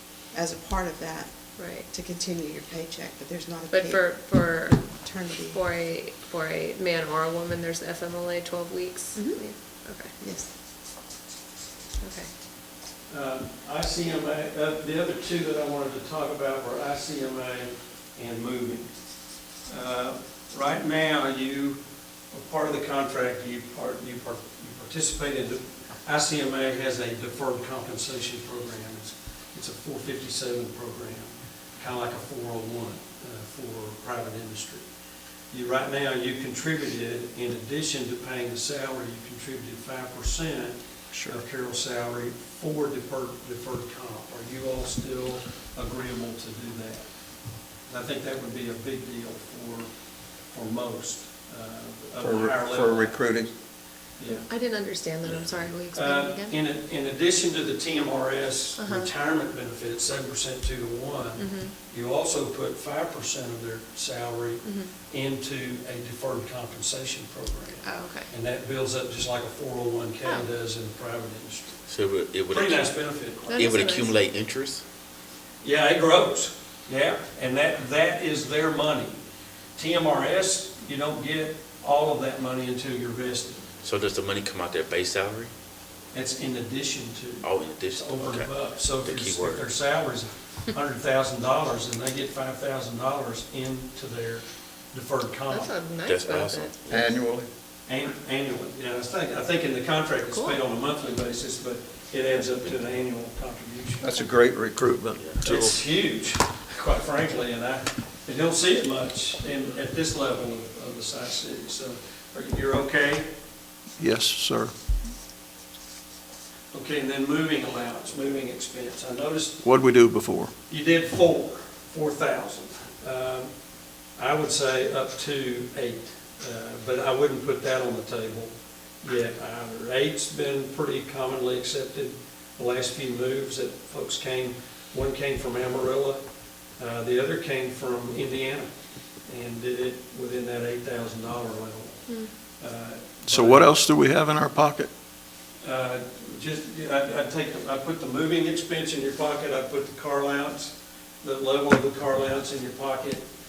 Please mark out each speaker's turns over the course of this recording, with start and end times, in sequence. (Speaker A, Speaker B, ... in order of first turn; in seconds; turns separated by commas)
Speaker A: 0.3-5.6, Speaker B: 1.6-1.9, Speaker B: 3.7-4.9, Speaker B: 5.4-10.1, Speaker A: 9.1-9.4, Speaker A: 10.2-10.5, Speaker B: 12.0-12.3, Speaker C: 13.1-18.9, Speaker C: 19.7-21.8, Speaker C: 22.3-34.9, Speaker C: 35.5-47.1, Speaker D: 41.1-41.4, Speaker C: 47.8-49.9, Speaker C: 50.5-53.2, Speaker D: 52.2-53.5, Speaker C: 54.2-54.5, Speaker B: 54.3-56.6, Speaker E: 55.2-55.7, Speaker C: 55.9-71.8, Speaker B: 58.8-59.1, Speaker B: 61.4-61.8, Speaker B: 64.6-64.9, Speaker B: 67.8-68.3, Speaker B: 70.2-70.5, Speaker E: 71.9-74.8, Speaker C: 72.5-73.8, Speaker B: 73.5-74.2, Speaker C: 75.6-79.2, Speaker C: 79.8-83.7, Speaker E: 83.8-85.5, Speaker C: 86.1-95.7, Speaker E: 87.4-89.7, Speaker B: 95.5-96.7, Speaker E: 96.0-97.2, Speaker D: 96.9-97.5, Speaker C: 97.8-104.1, Speaker B: 100.3-100.6, Speaker E: 102.5-102.8, Speaker D: 104.0-105.8, Speaker E: 105.2-105.4, Speaker C: 105.4-113.3, Speaker D: 114.0-114.7, Speaker C: 116.7-119.6, Speaker D: 119.6-120.5, Speaker C: 120.7-123.5, Speaker C: 124.2-136.2, Speaker C: 136.8-138.7, Speaker C: 139.3-143.7, Speaker D: 143.3-144.9, Speaker C: 145.6-153.2